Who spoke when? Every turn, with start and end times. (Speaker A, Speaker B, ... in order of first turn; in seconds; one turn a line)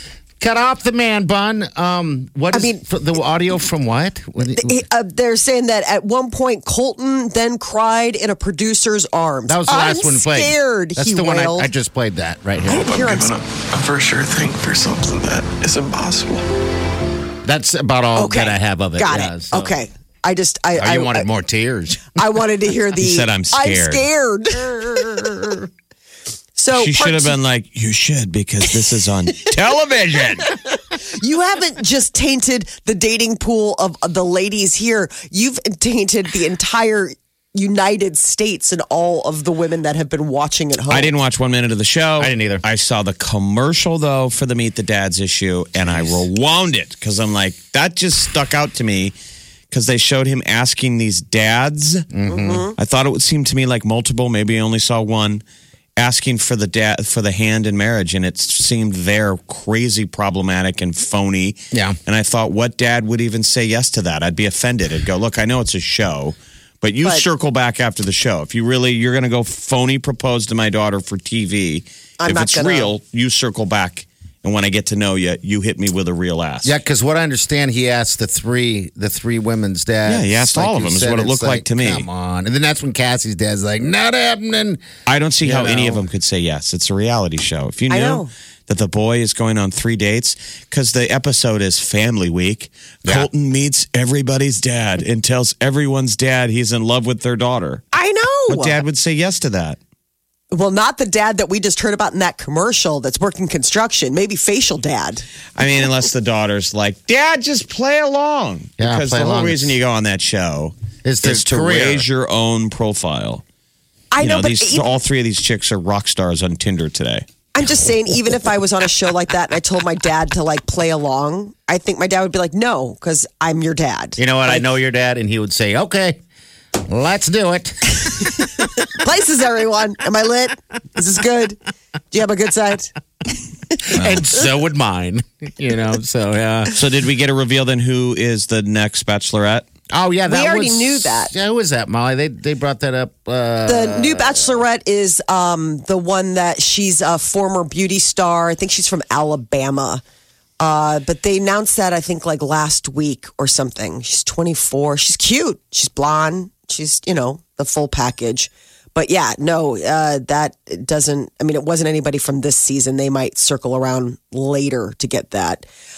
Speaker A: 0.4-4.8
Speaker B: 2.5-2.8
Speaker B: 4.5-11.7
Speaker A: 9.5-12.9
Speaker C: 12.6-16.4
Speaker B: 12.8-13.3
Speaker A: 17.4-19.8
Speaker B: 18.2-21.3
Speaker A: 20.8-22.2
Speaker B: 22.1-25.4
Speaker D: 23.0-24.1
Speaker A: 24.7-25.6
Speaker B: 26.6-27.4
Speaker D: 26.7-30.5
Speaker B: 30.9-41.1
Speaker D: 40.9-49.1
Speaker A: 42.2-42.6
Speaker A: 45.8-46.2
Speaker D: 49.7-52.1
Speaker A: 52.1-52.7
Speaker B: 52.3-52.8
Speaker D: 52.8-55.4
Speaker D: 56.0-76.8
Speaker A: 61.7-62.0
Speaker B: 72.2-72.9
Speaker A: 76.6-84.8
Speaker D: 80.1-82.1
Speaker D: 85.1-97.9
Speaker A: 85.4-86.1
Speaker B: 87.9-88.3
Speaker B: 97.9-98.8
Speaker D: 98.5-99.8
Speaker B: 100.5-105.2
Speaker D: 105.6-113.4
Speaker A: 108.8-109.8
Speaker A: 111.0-112.1
Speaker B: 114.1-114.9
Speaker D: 114.2-117.2
Speaker B: 117.5-124.6
Speaker A: 124.2-126.2
Speaker A: 126.9-128.5
Speaker B: 128.6-131.6
Speaker B: 132.1-132.9
Speaker A: 133.8-136.8
Speaker D: 136.7-139.7
Speaker A: 139.9-144.6
Speaker B: 140.3-141.3
Speaker B: 143.7-150.0
Speaker B: 150.6-165.7